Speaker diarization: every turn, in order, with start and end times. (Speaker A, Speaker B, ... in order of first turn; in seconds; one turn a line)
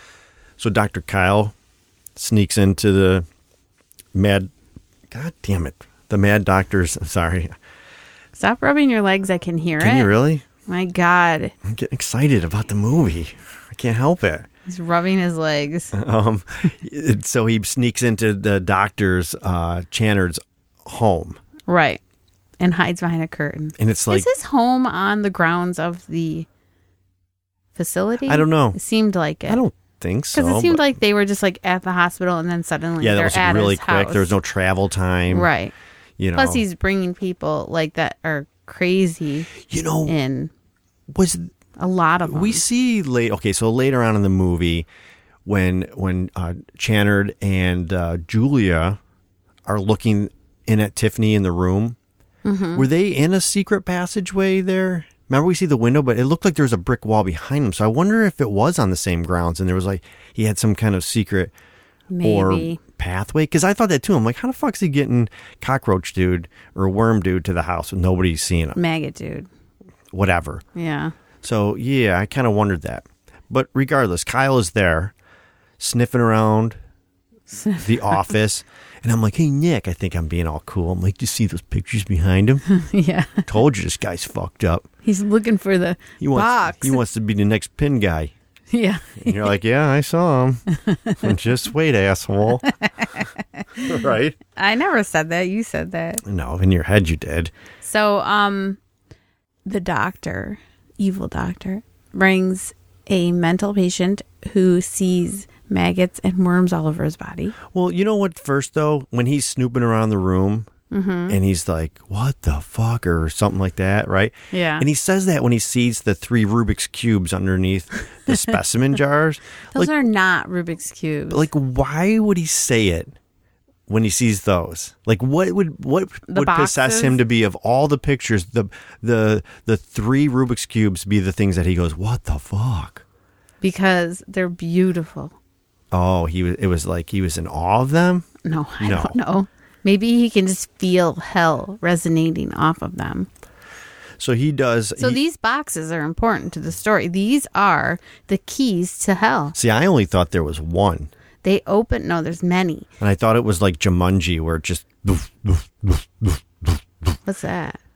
Speaker A: 0.6-1.5
Speaker A: 2.2-3.2
Speaker A: 4.1-4.5
Speaker A: 5.1-7.5
Speaker B: 8.3-10.1
Speaker A: 9.8-10.4
Speaker B: 10.7-11.5
Speaker A: 11.6-14.5
Speaker B: 14.7-15.9
Speaker A: 15.9-21.4
Speaker B: 21.7-22.0
Speaker B: 22.6-26.5
Speaker A: 23.8-24.3
Speaker B: 27.8-29.6
Speaker A: 28.3-28.8
Speaker A: 29.5-30.9
Speaker B: 30.3-34.4
Speaker A: 33.0-35.5
Speaker B: 35.3-35.7
Speaker A: 36.2-36.6
Speaker B: 36.4-40.5
Speaker A: 39.6-40.2
Speaker A: 41.1-41.5
Speaker B: 41.8-42.6
Speaker A: 42.3-44.9
Speaker A: 45.5-49.0
Speaker A: 49.7-52.0
Speaker B: 52.5-52.9
Speaker A: 52.8-61.5
Speaker B: 62.1-62.8
Speaker A: 62.2-68.8
Speaker B: 68.8-69.5
Speaker A: 70.1-70.6
Speaker B: 70.8-71.1
Speaker A: 71.4-75.1
Speaker A: 75.8-76.8
Speaker B: 77.5-78.3
Speaker A: 77.8-82.7
Speaker B: 82.7-83.5
Speaker A: 83.5-84.9
Speaker B: 85.0-87.0
Speaker A: 86.2-88.3
Speaker B: 88.7-89.5
Speaker A: 89.2-90.6
Speaker B: 90.7-91.3
Speaker A: 91.2-92.7
Speaker B: 92.6-96.2
Speaker A: 93.8-94.4
Speaker A: 96.2-97.5
Speaker B: 97.8-98.8
Speaker B: 99.7-107.6
Speaker A: 107.7-110.7
Speaker B: 110.9-111.4
Speaker A: 111.3-119.9
Speaker B: 114.5-114.9
Speaker B: 119.7-121.5
Speaker A: 121.3-123.1
Speaker A: 123.9-133.0
Speaker B: 126.3-127.2
Speaker B: 133.6-135.4
Speaker A: 135.9-138.3
Speaker B: 138.4-143.3
Speaker A: 138.8-139.2
Speaker A: 144.2-145.2
Speaker B: 145.0-149.6
Speaker A: 149.6-151.1
Speaker B: 151.4-152.9
Speaker A: 153.0-157.2
Speaker B: 157.3-157.8